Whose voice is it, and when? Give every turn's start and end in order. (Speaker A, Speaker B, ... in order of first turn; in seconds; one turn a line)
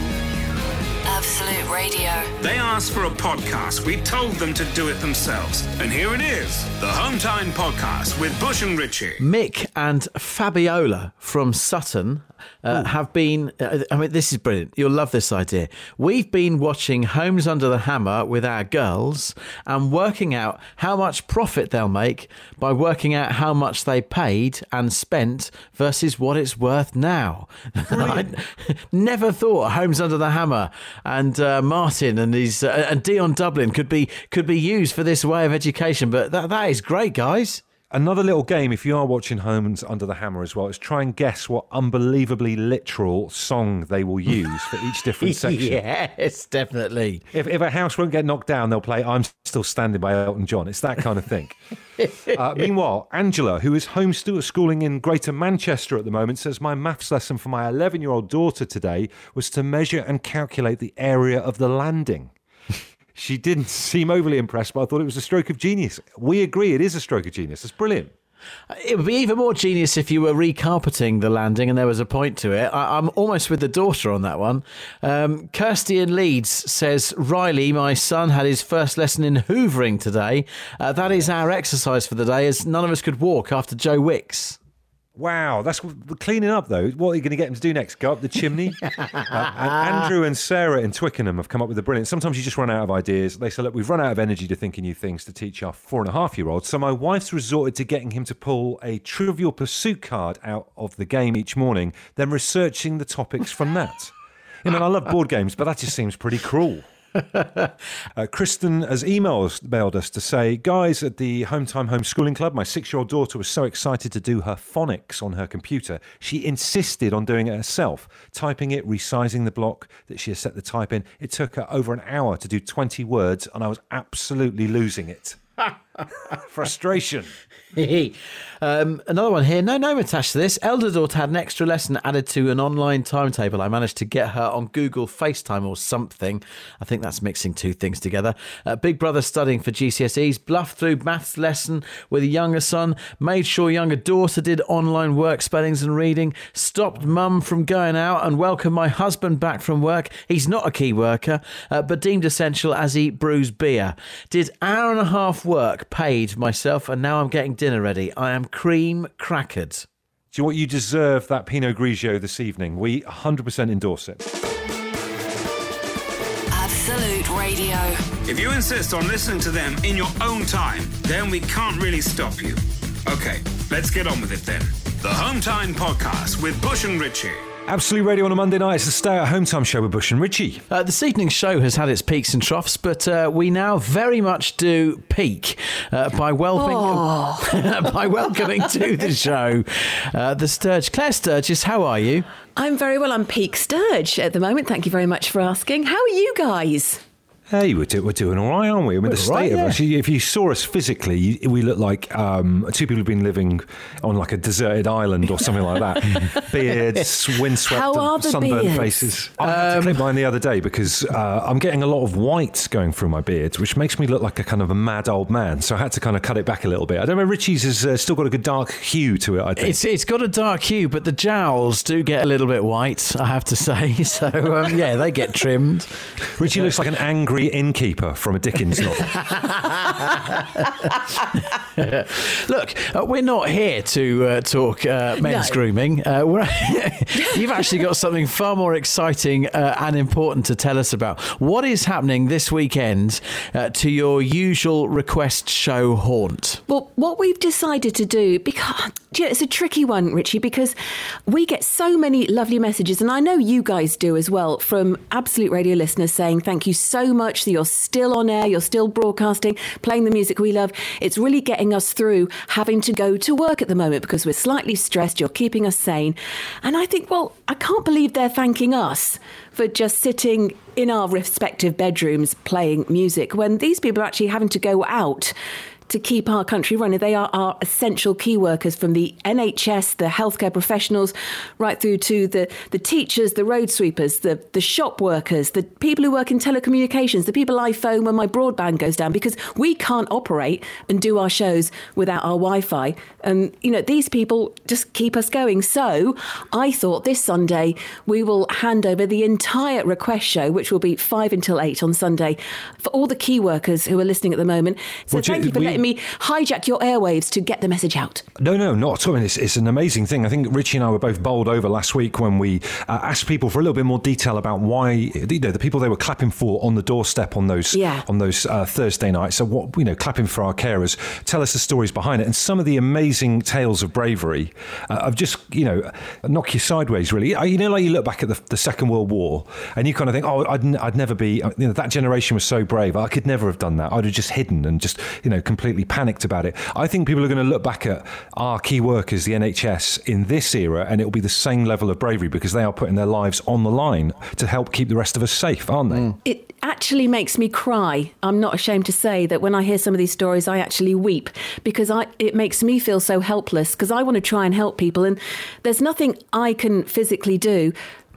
Speaker A: 1.1-2.3
Speaker B: 2.4-9.2
Speaker C: 9.2-37.6
Speaker D: 27.9-28.3
Speaker D: 37.9-45.8
Speaker C: 45.2-47.2
Speaker D: 47.3-51.6
Speaker C: 52.0-52.4
Speaker D: 52.2-62.3
Speaker D: 63.1-68.1
Speaker C: 68.7-84.6
Speaker D: 85.2-106.9
Speaker C: 107.3-107.7
Speaker D: 108.2-125.4
Speaker D: 126.3-127.3
Speaker C: 127.7-159.9
Speaker D: 160.3-164.2
Speaker A: 166.5-168.1
Speaker B: 168.3-177.5
Speaker D: 177.7-180.7
Speaker C: 180.7-192.2
Speaker E: 186.6-187.6
Speaker E: 192.6-197.0
Speaker D: 197.5-219.8
Speaker C: 199.0-199.8
Speaker E: 207.7-209.2
Speaker C: 209.4-210.1
Speaker C: 219.6-225.9
Speaker D: 226.3-229.2
Speaker C: 229.0-246.6
Speaker E: 235.2-235.6
Speaker E: 246.7-275.4
Speaker E: 275.9-308.2
Speaker D: 305.1-305.8
Speaker D: 308.4-346.1
Speaker E: 317.7-318.1
Speaker E: 346.2-357.8